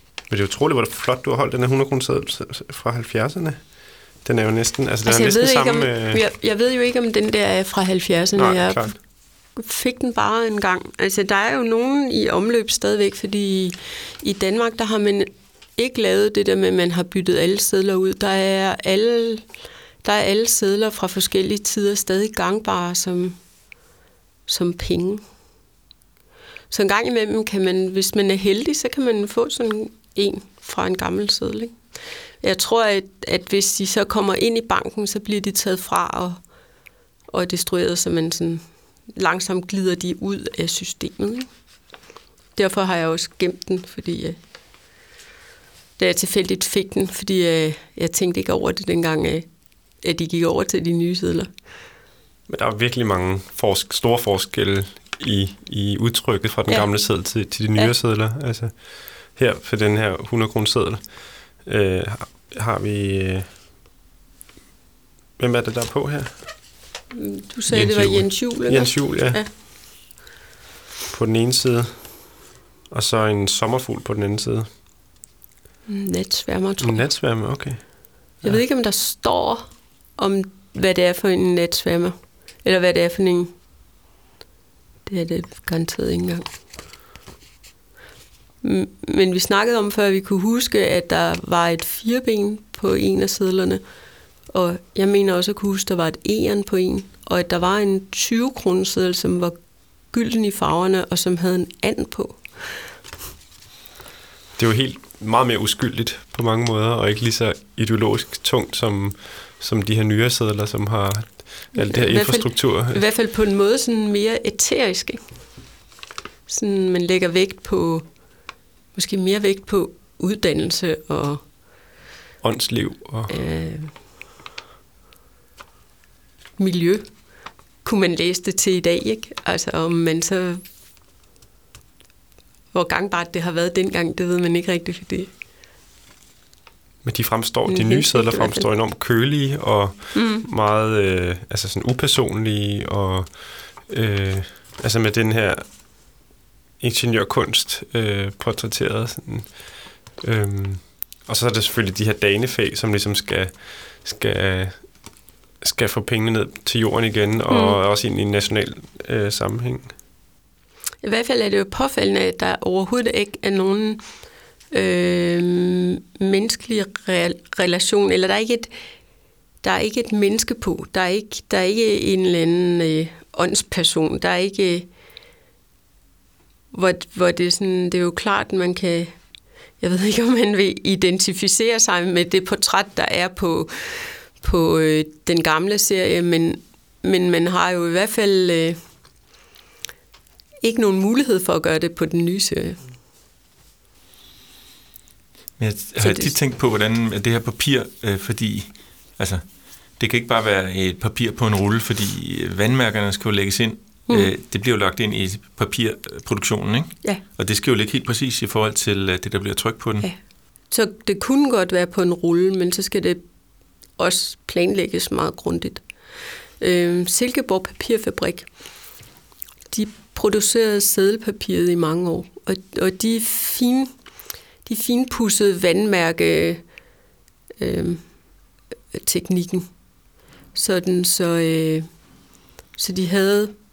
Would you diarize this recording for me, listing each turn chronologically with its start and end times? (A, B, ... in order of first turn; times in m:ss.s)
0:00.3-0:06.2 A
0:05.0-0:19.4 B
0:08.4-0:08.9 A
0:20.0-0:23.4 B
0:24.5-0:25.2 B
0:26.7-0:31.8 B
0:32.4-0:36.4 B
0:37.3-0:41.5 B
0:42.6-0:44.4 B
0:46.0-0:49.5 B
0:50.0-0:51.5 B
0:52.5-1:03.5 A
0:56.7-0:56.9 B
1:05.4-1:06.4 A
1:07.1-1:09.5 B
1:07.7-1:09.4 A
1:11.1-1:14.7 A
1:15.9-1:17.0 B
1:16.8-1:18.6 A
1:18.4-1:23.5 B
1:25.0-1:26.5 B
1:28.6-1:33.8 B
1:34.5-1:39.5 B
1:40.1-1:42.6 B
1:44.6-1:53.0 A
1:51.7-1:55.2 B
1:56.5-1:58.2 B
1:58.9-2:01.4 B
2:02.4-2:03.4 A
2:03.3-2:03.9 B
2:06.6-2:10.6 B
2:12.7-2:15.3 B
2:17.0-2:26.2 A
2:17.6-2:18.7 B
2:20.1-2:20.4 B
2:26.8-2:39.9 A
2:37.5-2:37.8 B
2:41.0-2:44.0 B
2:44.7-2:48.7 B
2:49.6-2:54.9 B
2:56.7-2:59.1 B
2:59.8-3:08.8 B
3:10.6-3:12.8 B
3:15.6-3:30.1 C
3:16.0-3:16.3 B
3:30.0-3:33.2 B
3:34.0-3:35.8 B
3:36.6-3:38.5 B
3:39.7-3:43.9 B
3:44.6-3:46.6 B
3:47.6-3:48.1 B
3:48.9-3:49.7 B
3:50.5-3:51.9 B
3:52.8-3:53.6 B